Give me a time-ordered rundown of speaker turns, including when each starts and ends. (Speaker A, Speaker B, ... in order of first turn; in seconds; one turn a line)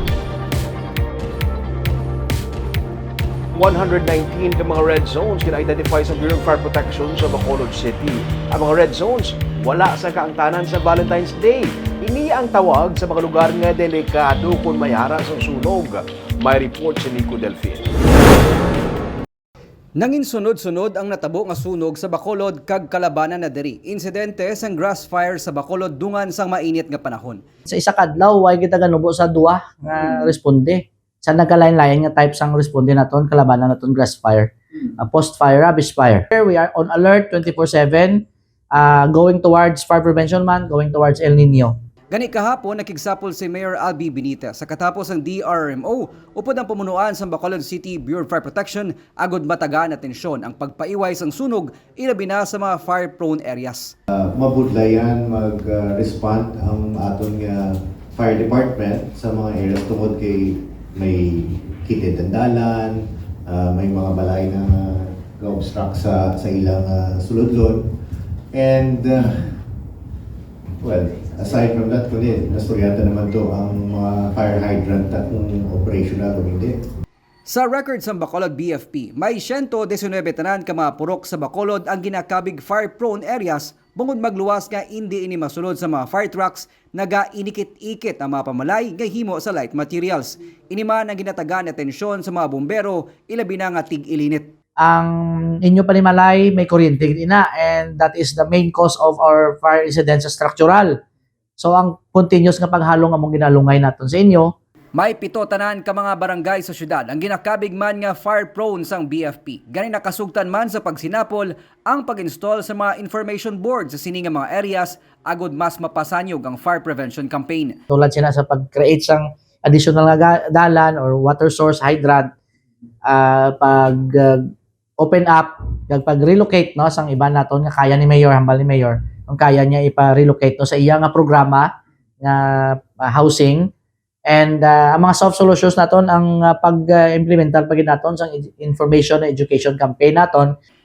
Speaker A: 3.5-17.9
Speaker B: 20.0-27.4
Speaker C: 27.7-41.7
Speaker B: 42.1-53.9
Speaker D: 54.1-67.9
Speaker D: 68.5-69.5
Speaker D: 70.8-76.8
Speaker B: 77.5-94.5
Speaker C: 94.8-101.0
Speaker C: 101.6-104.5
Speaker B: 105.0-117.8
Speaker C: 117.9-122.3
Speaker C: 123.1-131.7
Speaker C: 132.2-133.7
Speaker C: 134.3-140.5